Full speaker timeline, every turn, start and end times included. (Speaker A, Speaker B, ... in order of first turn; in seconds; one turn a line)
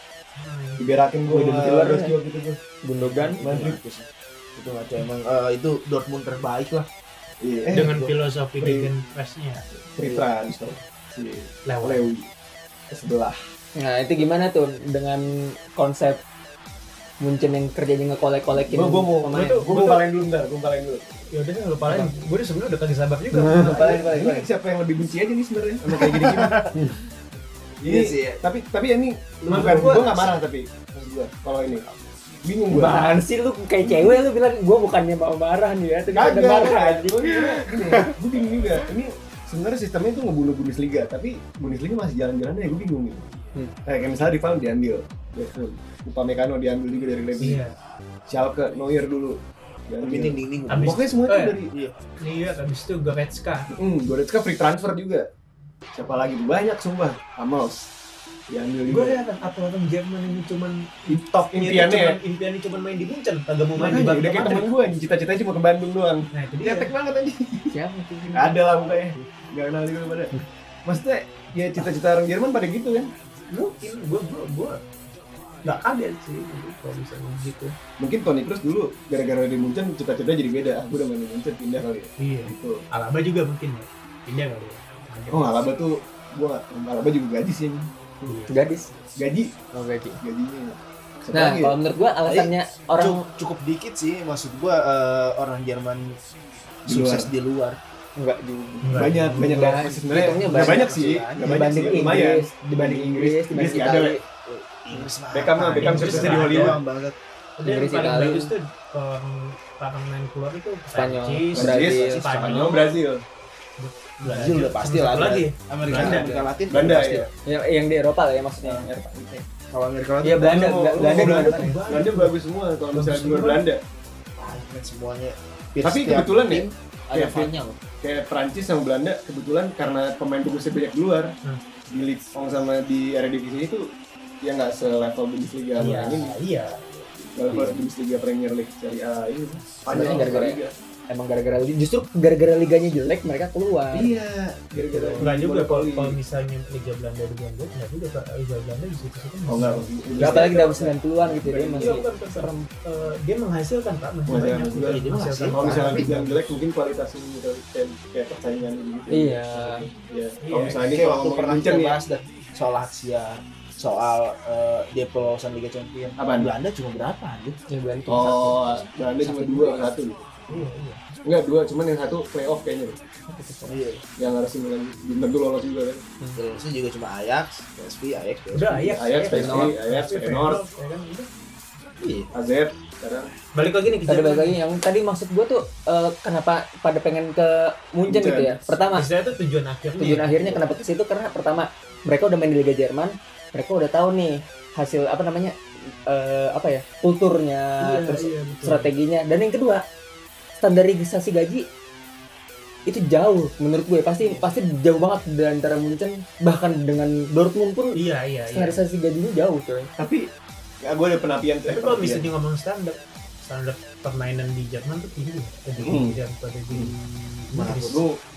Speaker A: 0.4-0.8
Speaker B: 0.8-2.6
Speaker C: 1.3-1.8
Speaker D: 1.3-2.1
Speaker D: 2.8-3.4
Speaker A: 3.0-3.3
Speaker B: 3.4-3.8
Speaker C: 3.4-6.9
Speaker B: 7.4-7.9
Speaker A: 7.7-9.7
Speaker C: 7.7-8.2
Speaker B: 8.6-8.9
Speaker B: 9.9-12.3
Speaker A: 11.7-12.1
Speaker B: 12.9-13.4
Speaker D: 13.8-16.2
Speaker D: 17.2-19.6
Speaker B: 18.5-21.1
Speaker A: 19.3-20.1
Speaker A: 21.3-24.1
Speaker B: 21.8-22.1
Speaker B: 23.3-26.9
Speaker D: 23.7-24.5
Speaker C: 25.9-26.7
Speaker C: 27.8-28.4
Speaker B: 27.8-31.9
Speaker C: 29.4-30.3
Speaker A: 29.5-30.3
Speaker B: 32.4-33.1
Speaker D: 32.7-38.1
Speaker B: 36.1-43.3
Speaker B: 43.9-47.6
Speaker A: 47.4-47.8
Speaker B: 48.3-51.7
Speaker C: 50.0-51.1
Speaker A: 50.7-51.6
Speaker A: 52.2-53.7
Speaker B: 53.7-55.3
Speaker B: 55.9-57.9
Speaker B: 58.5-59.2
Speaker A: 58.9-64.7
Speaker B: 61.5-62.2
Speaker B: 63.8-67.7
Speaker A: 66.3-66.9
Speaker D: 67.7-69.0
Speaker B: 68.3-73.1
Speaker A: 73.5-74.8
Speaker A: 75.6-77.8
Speaker B: 78.0-82.8
Speaker A: 82.2-85.6
Speaker B: 85.3-87.9
Speaker A: 88.2-88.6
Speaker D: 88.4-88.9
Speaker B: 89.2-89.5
Speaker D: 89.7-90.2
Speaker B: 90.2-91.8
Speaker D: 91.3-93.2
Speaker C: 92.2-96.2
Speaker C: 96.8-97.8
Speaker B: 96.9-97.3
Speaker D: 98.2-104.2
Speaker A: 98.8-99.7
Speaker B: 98.9-104.2
Speaker C: 100.2-102.0
Speaker C: 104.5-107.2
Speaker B: 105.3-106.8
Speaker A: 105.7-106.8
Speaker A: 107.6-113.0
Speaker D: 107.6-108.5
Speaker D: 110.9-112.3
Speaker B: 111.5-113.2
Speaker C: 111.6-112.7
Speaker A: 113.8-116.5
Speaker C: 114.2-117.3
Speaker B: 115.9-117.3
Speaker D: 117.5-118.9
Speaker B: 118.9-119.4
Speaker C: 119.7-120.6
Speaker D: 120.2-121.8
Speaker B: 120.4-123.8
Speaker A: 121.0-122.4
Speaker A: 122.9-123.6
Speaker C: 124.4-127.8
Speaker B: 125.8-131.3
Speaker B: 131.9-133.8
Speaker B: 134.4-136.4
Speaker A: 135.8-136.8
Speaker C: 137.2-137.9
Speaker B: 137.3-140.7
Speaker D: 139.9-144.1
Speaker B: 143.9-146.2
Speaker D: 144.8-145.2
Speaker A: 145.2-150.3
Speaker B: 149.5-152.1
Speaker D: 150.2-152.7
Speaker A: 151.8-156.4
Speaker B: 154.3-162.0
Speaker C: 154.8-156.1
Speaker D: 159.1-159.9
Speaker A: 160.4-160.9
Speaker C: 160.8-167.6
Speaker B: 166.2-166.5
Speaker D: 167.7-169.9
Speaker B: 168.1-170.2
Speaker A: 170.5-171.0
Speaker B: 171.2-173.0
Speaker D: 173.3-173.8
Speaker C: 173.7-174.0
Speaker B: 174.2-176.0
Speaker C: 176.4-179.1
Speaker A: 178.5-181.3
Speaker B: 179.0-180.6
Speaker D: 179.3-179.8
Speaker C: 182.0-182.3
Speaker B: 182.3-183.3
Speaker A: 183.5-184.6
Speaker D: 184.1-189.1
Speaker B: 188.1-188.5
Speaker A: 189.0-190.3
Speaker D: 190.0-195.5
Speaker C: 190.4-190.8
Speaker D: 196.1-199.8
Speaker A: 197.8-198.9
Speaker D: 200.6-201.7
Speaker D: 202.9-209.9
Speaker A: 207.9-208.8
Speaker B: 210.0-210.3
Speaker B: 210.8-212.3
Speaker A: 211.7-217.0
Speaker B: 215.8-216.2
Speaker C: 216.9-218.0
Speaker A: 217.5-218.0
Speaker B: 217.9-218.2